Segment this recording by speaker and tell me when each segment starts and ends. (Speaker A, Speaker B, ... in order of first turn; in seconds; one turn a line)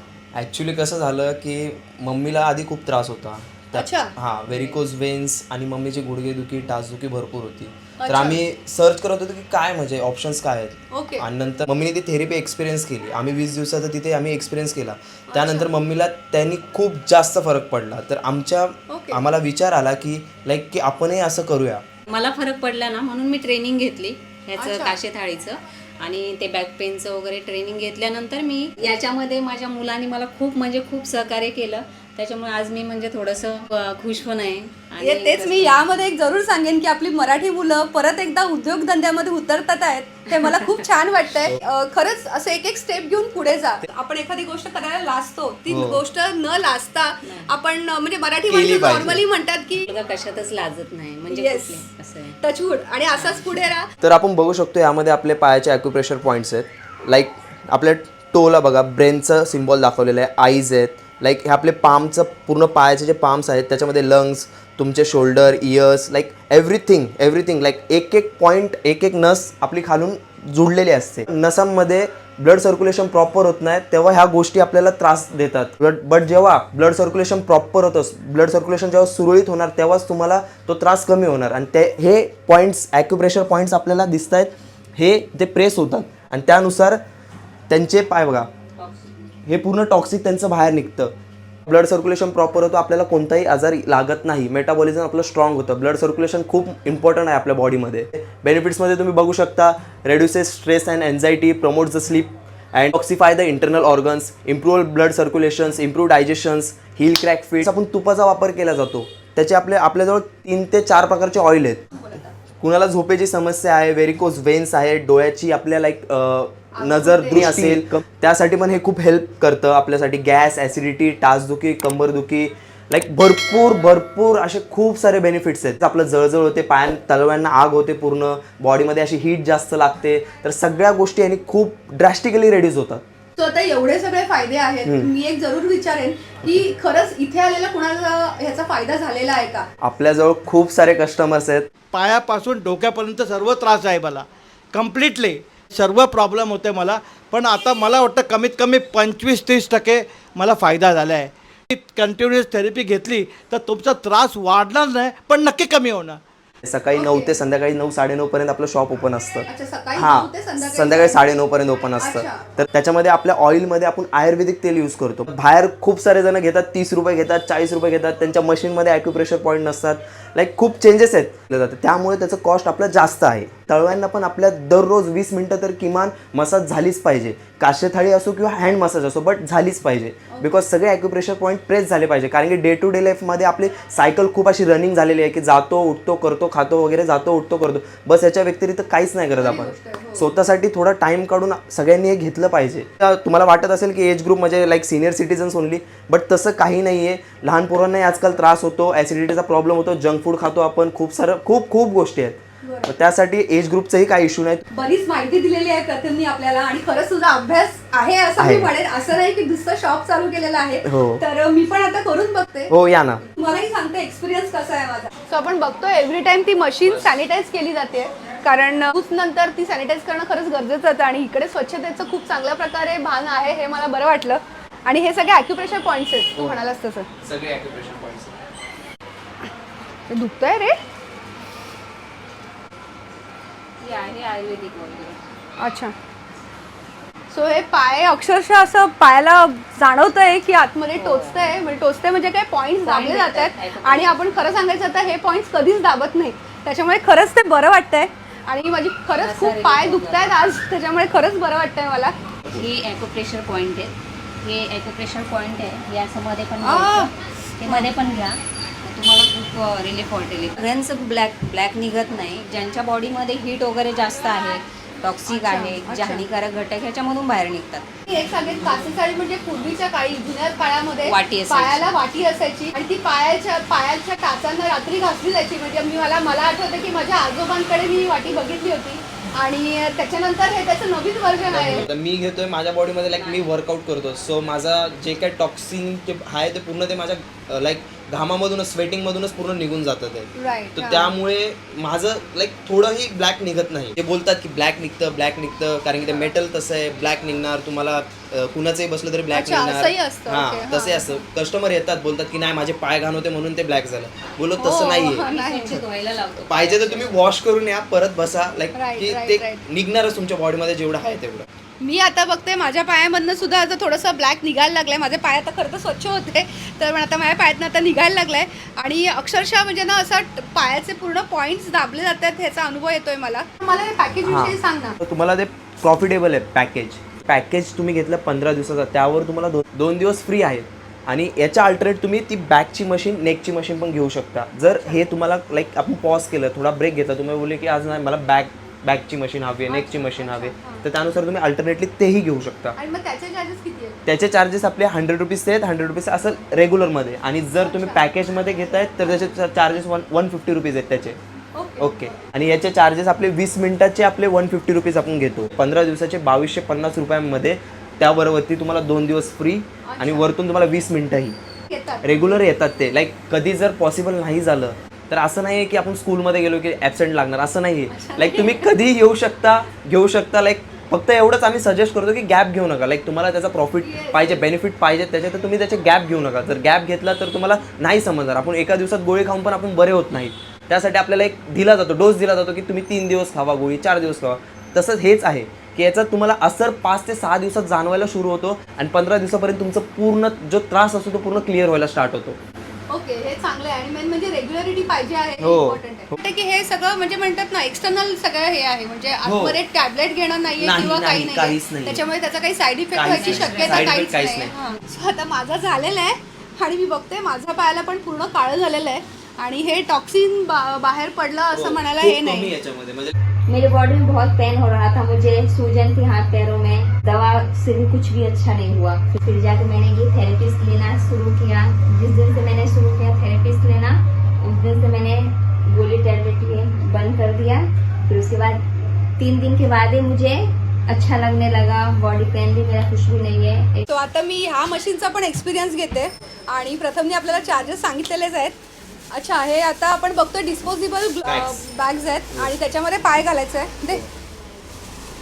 Speaker A: 0.3-21.8
Speaker B: 3.8-4.1
Speaker C: 4.5-4.8
Speaker B: 8.0-8.4
Speaker B: 10.9-11.2
Speaker B: 15.3-15.7
Speaker B: 18.9-19.2
Speaker C: 22.1-35.9
Speaker B: 24.6-25.0
Speaker B: 35.0-49.9
Speaker C: 40.3-40.9
Speaker A: 45.7-46.0
Speaker C: 47.2-47.5
Speaker A: 48.5-49.2
Speaker C: 49.8-52.4
Speaker B: 51.3-51.8
Speaker B: 52.4-53.9
Speaker C: 53.1-53.5
Speaker A: 54.0-87.0
Speaker A: 87.7-88.5
Speaker C: 88.8-89.1
Speaker A: 89.5-91.1
Speaker A: 91.7-111.9
Speaker B: 112.0-112.3
Speaker A: 112.6-133.0
Speaker B: 116.7-117.6
Speaker B: 133.4-139.7
Speaker A: 134.8-135.1
Speaker A: 139.8-141.7
Speaker D: 141.9-156.2
Speaker A: 156.6-204.6
Speaker B: 156.9-157.4
Speaker B: 159.5-161.4
Speaker B: 162.0-162.4
Speaker B: 189.4-190.3
Speaker B: 202.6-202.9
Speaker B: 204.7-212.7
Speaker A: 208.4-208.7
Speaker A: 210.8-211.2
Speaker A: 212.7-213.3
Speaker B: 213.3-227.1
Speaker A: 226.4-226.6
Speaker A: 227.2-228.4
Speaker B: 230.1-230.8
Speaker C: 233.8-235.2
Speaker B: 235.6-235.9
Speaker B: 237.3-252.2
Speaker C: 240.9-241.6
Speaker C: 242.8-244.4
Speaker C: 249.2-250.4
Speaker C: 252.5-267.9
Speaker B: 256.6-257.1
Speaker B: 257.6-257.9
Speaker B: 265.3-266.2
Speaker B: 268.1-281.9
Speaker C: 271.0-271.9
Speaker A: 281.4-305.3
Speaker C: 283.1-283.5
Speaker B: 290.4-291.1
Speaker B: 299.3-301.2
Speaker B: 304.6-305.8
Speaker C: 305.2-307.2
Speaker A: 306.4-311.5
Speaker B: 308.7-309.6
Speaker B: 311.8-325.0
Speaker A: 324.2-342.8
Speaker B: 334.7-335.1
Speaker B: 339.7-340.9
Speaker B: 342.8-344.0
Speaker A: 344.1-351.2
Speaker B: 347.6-348.1
Speaker B: 351.6-352.2
Speaker A: 351.8-361.4
Speaker B: 359.9-360.3
Speaker B: 361.7-362.5
Speaker A: 362.0-392.4
Speaker B: 367.9-368.6
Speaker B: 373.8-374.5
Speaker B: 392.9-412.5
Speaker A: 395.4-396.2
Speaker A: 399.2-399.6
Speaker A: 400.6-402.0
Speaker A: 402.9-404.5
Speaker C: 403.0-404.0
Speaker A: 411.5-413.1
Speaker E: 413.5-433.9
Speaker B: 433.9-438.6
Speaker B: 439.1-444.0
Speaker A: 441.2-441.7